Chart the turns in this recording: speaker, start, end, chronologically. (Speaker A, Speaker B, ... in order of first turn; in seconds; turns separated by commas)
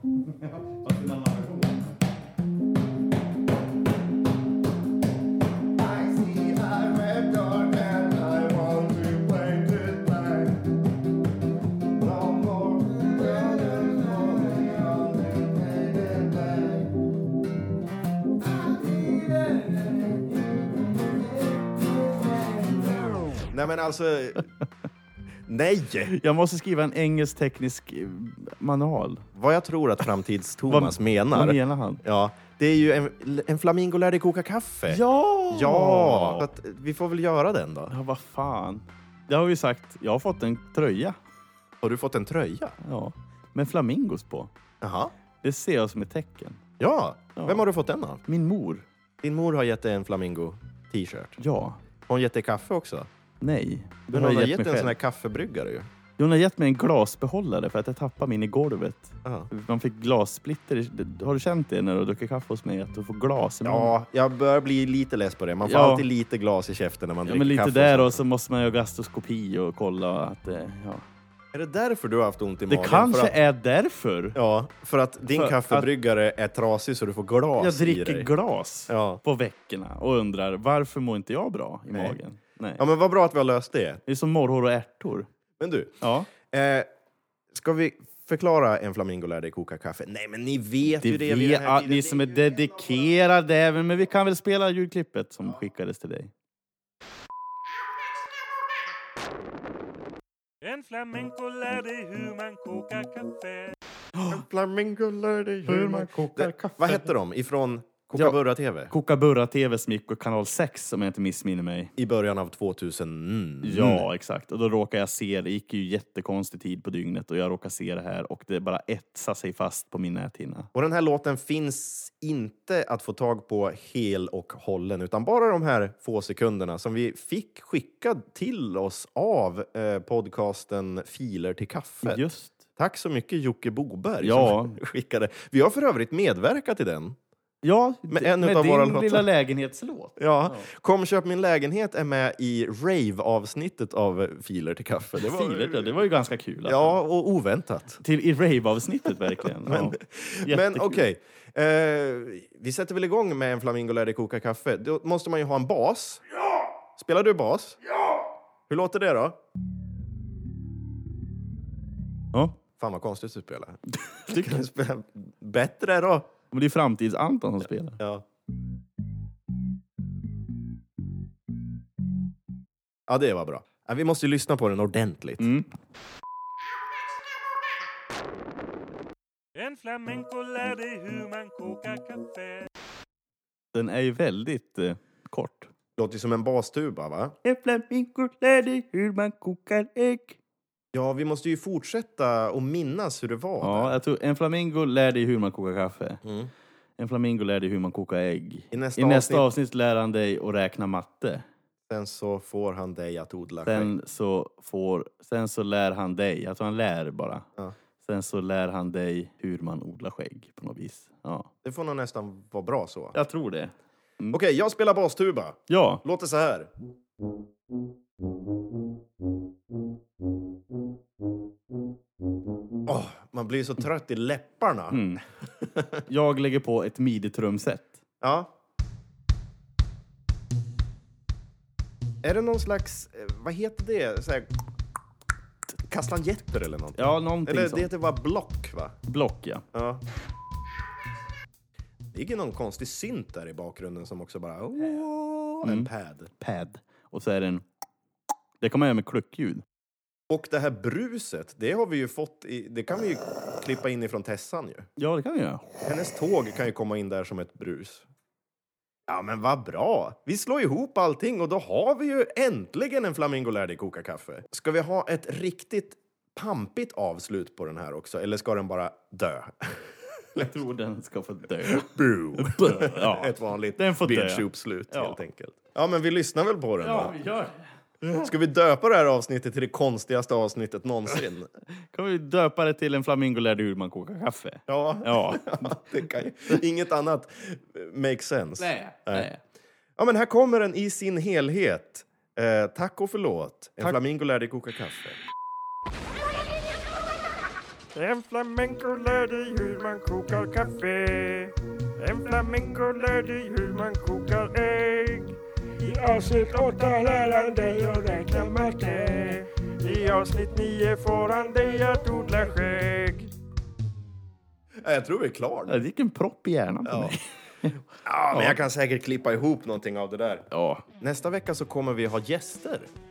Speaker A: 0.7-1.7, Speaker A: 5.7-10.7, Speaker A: 12.0-16.9, Speaker A: 18.7-20.2, Speaker A: 23.5-24.5, Speaker A: 25.5-26.1, Speaker B: 26.1-29.2, Speaker A: 29.3-37.9, Speaker B: 30.7-32.0, Speaker B: 34.9-36.5, Speaker B: 37.9-41.2, Speaker A: 41.8-42.8, Speaker B: 42.8-44.5, Speaker A: 44.8-45.1, Speaker B: 45.4-46.6, Speaker A: 46.8-48.2, Speaker B: 47.4-47.6, Speaker B: 48.2-48.8, Speaker A: 49.2-51.4, Speaker B: 51.4-51.8, Speaker A: 52.0-53.1, Speaker B: 53.4-54.9, Speaker A: 54.1-55.9, Speaker B: 56.2-63.9, Speaker A: 59.2-59.5, Speaker A: 63.6-68.2, Speaker B: 65.6-66.0, Speaker B: 67.2-71.0, Speaker A: 71.5-73.3, Speaker B: 72.7-74.4, Speaker A: 74.3-78.3, Speaker B: 75.3-75.9, Speaker B: 77.6-82.8, Speaker A: 78.9-79.2, Speaker A: 81.9-82.2, Speaker A: 82.8-84.0, Speaker B: 84.1-85.3, Speaker A: 85.6-86.9, Speaker B: 86.0-86.3, Speaker A: 87.5-93.1, Speaker B: 90.8-96.3, Speaker C: 100.6-103.7, Speaker A: 104.2-108.9, Speaker B: 105.7-107.1, Speaker B: 108.9-111.9, Speaker A: 112.0-114.0, Speaker B: 113.6-120.7, Speaker A: 120.7-132.2, Speaker B: 132.0-132.6, Speaker A: 132.8-137.2, Speaker B: 134.2-134.8, Speaker B: 137.6-140.7, Speaker A: 138.1-139.3, Speaker A: 140.2-146.0, Speaker B: 145.2-147.0, Speaker A: 146.6-148.0, Speaker B: 148.0-151.0, Speaker A: 149.4-156.2, Speaker A: 156.9-157.8, Speaker A: 158.7-159.4, Speaker A: 162.8-166.3, Speaker B: 164.1-164.6, Speaker B: 166.5-168.0, Speaker A: 168.0-168.2, Speaker A: 173.1-175.5, Speaker B: 175.4-175.7, Speaker C: 179.6-182.6, Speaker B: 183.7-185.7, Speaker A: 186.0-187.3, Speaker B: 187.4-190.4, Speaker A: 190.9-194.0, Speaker B: 193.6-196.2, Speaker A: 196.2-196.5, Speaker B: 197.0-201.4, Speaker A: 198.7-199.5, Speaker A: 201.9-203.9, Speaker B: 203.6-207.4, Speaker B: 208.0-211.5, Speaker A: 211.6-213.2, Speaker B: 213.1-214.4, Speaker A: 214.3-216.7, Speaker B: 215.7-216.0, Speaker A: 222.8-225.0, Speaker B: 224.9-225.2, Speaker A: 225.6-226.0, Speaker B: 226.1-228.0, Speaker A: 228.2-228.5, Speaker A: 232.2-234.5, Speaker A: 235.9-239.0, Speaker B: 237.0-237.9, Speaker B: 239.1-239.6, Speaker A: 239.7-240.0, Speaker A: 242.1-246.3, Speaker B: 245.6-247.6, Speaker B: 248.6-249.6, Speaker A: 250.3-254.9, Speaker B: 255.0-255.7, Speaker A: 255.8-258.1, Speaker A: 259.1-270.5, Speaker B: 270.4-275.2, Speaker A: 271.6-277.1, Speaker B: 276.8-277.7, Speaker A: 278.0-281.5, Speaker B: 281.9-285.9, Speaker A: 284.7-289.3, Speaker B: 288.6-289.4, Speaker A: 290.0-295.2, Speaker C: 297.9-313.3, Speaker A: 314.8-315.8, Speaker B: 315.7-317.8, Speaker A: 316.8-317.1, Speaker A: 318.0-320.4, Speaker B: 318.3-318.6, Speaker B: 320.5-320.8, Speaker A: 321.0-322.9